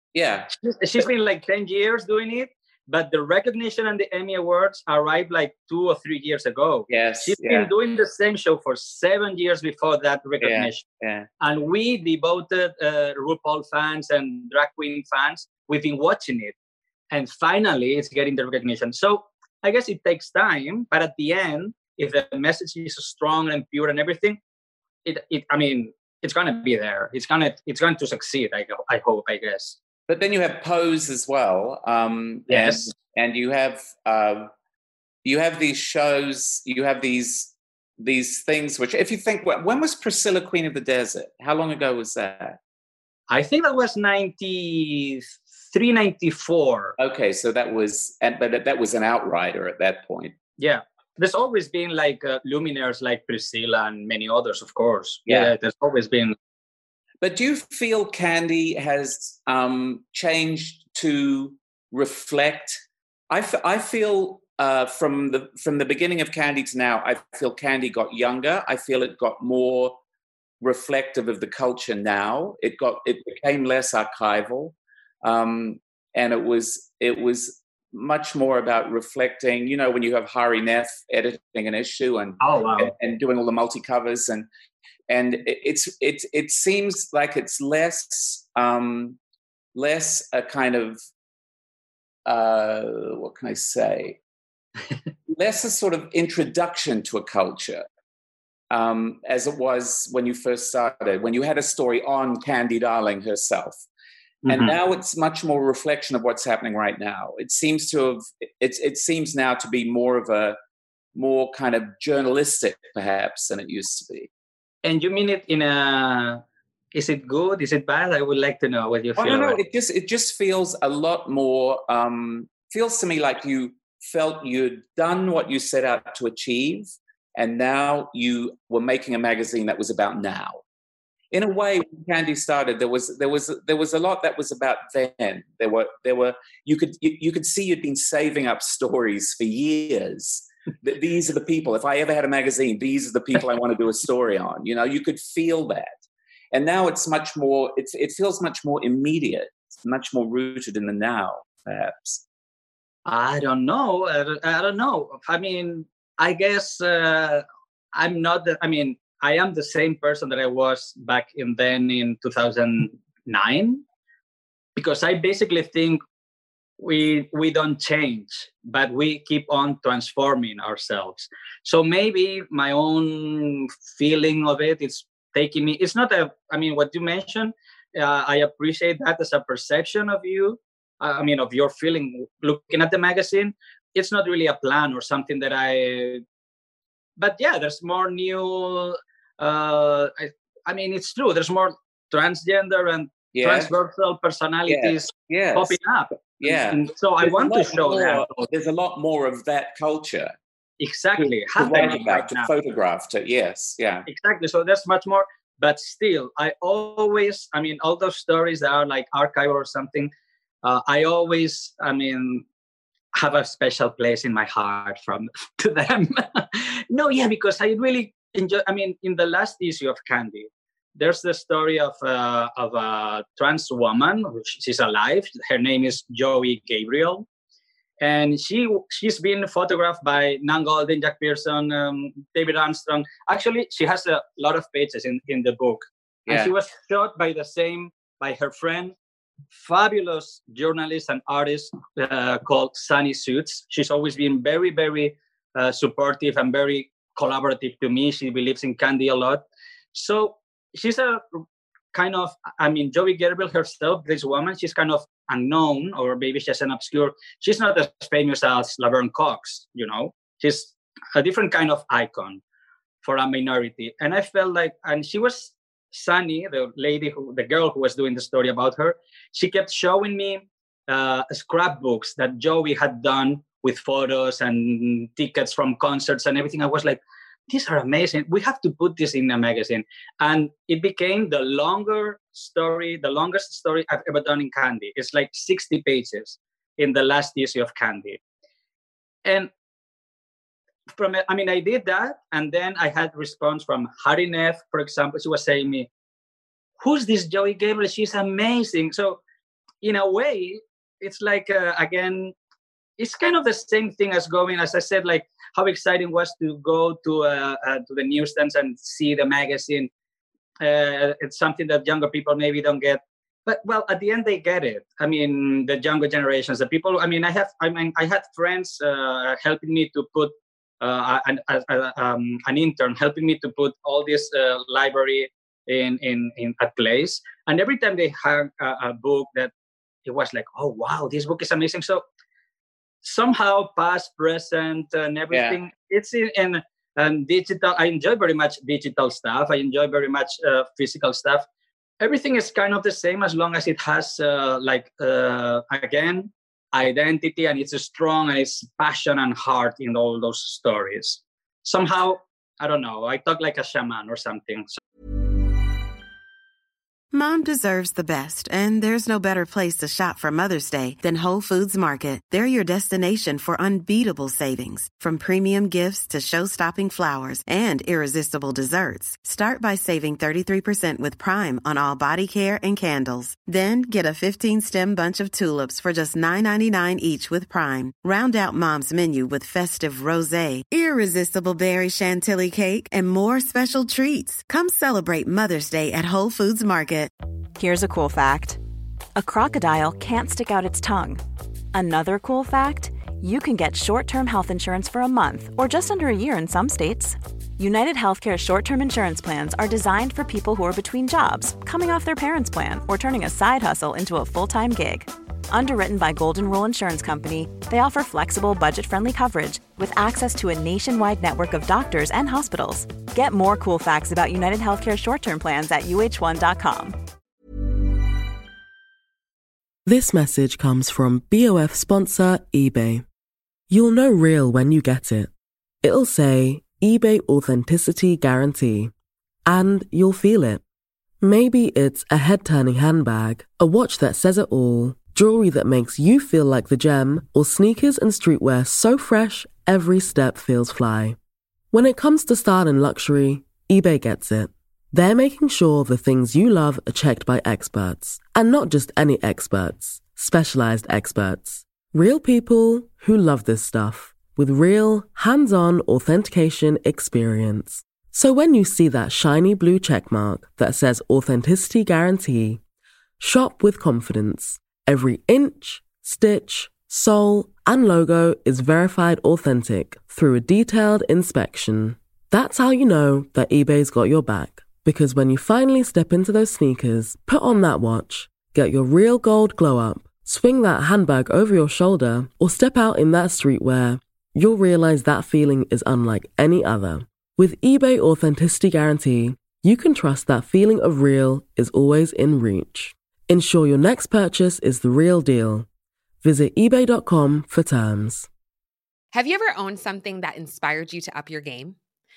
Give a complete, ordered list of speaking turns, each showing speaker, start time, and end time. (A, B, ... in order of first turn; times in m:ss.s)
0:00.1-0:00.5 A
0:00.6-0:10.8 B
0:06.9-0:07.7 A
0:10.4-0:11.3 A
0:11.4-0:16.5 B
0:17.1-0:24.4 B
0:25.0-0:29.8 B
0:30.1-0:34.5 A
0:32.5-0:32.9 B
0:35.2-0:42.6 A
0:43.3-0:47.0 B
0:47.0-0:50.3 A
0:50.6-0:56.4 B
0:55.3-0:55.5 A
0:57.2-1:02.8 A
1:03.3-1:10.0 A
1:10.6-1:24.5 A
1:22.4-1:22.9 B
1:25.1-1:29.2 A
1:29.8-1:31.0 A
1:32.3-1:34.2 A
1:35.3-1:37.8 A
1:38.7-1:43.8 A
1:44.5-1:44.7 B
1:44.5-1:50.6 A
1:51.2-1:54.3 A
1:54.8-1:56.4 B
1:56.9-1:59.6 B
1:59.2-2:10.6 A
2:11.3-2:25.9 A
2:26.5-2:32.2 A
2:33.1-2:43.8 B
2:44.8-2:46.0 B
2:46.8-3:06.2 B
3:07.2-3:18.3 B
3:13.3-3:13.7 A
3:14.7-3:15.8 A
3:16.4-3:20.4 A
3:20.8-3:22.5 B
3:21.2-3:24.1 A
3:24.1-3:30.1 B
3:30.6-3:32.4 B
3:33.2-3:47.3 B
3:48.0-3:59.0 B
3:59.6-4:09.4 B
4:09.9-4:11.4 B
4:11.9-4:22.4 B
4:23.0-4:48.2 B
4:49.2-4:49.5 B
4:51.0-4:55.9 B
4:56.8-4:59.2 B
4:59.8-5:02.3 B
5:03.0-5:09.9 B
5:10.6-5:29.5 B
5:30.0-5:32.0 B
5:33.0-5:41.5 B
5:35.3-5:35.6 A
5:42.0-5:54.8 B
5:57.1-6:27.1 C
6:27.6-6:28.6 D
6:29.2-6:31.2 D
6:31.7-6:57.0 D
6:59.9-7:03.0 E
7:03.7-7:05.3 E
7:05.8-7:08.9 E
7:09.5-7:10.6 E
7:11.2-7:21.2 E
7:21.7-7:42.6 E
7:43.2-8:15.7 E
8:16.2-8:18.3 E
8:19.1-8:21.8 F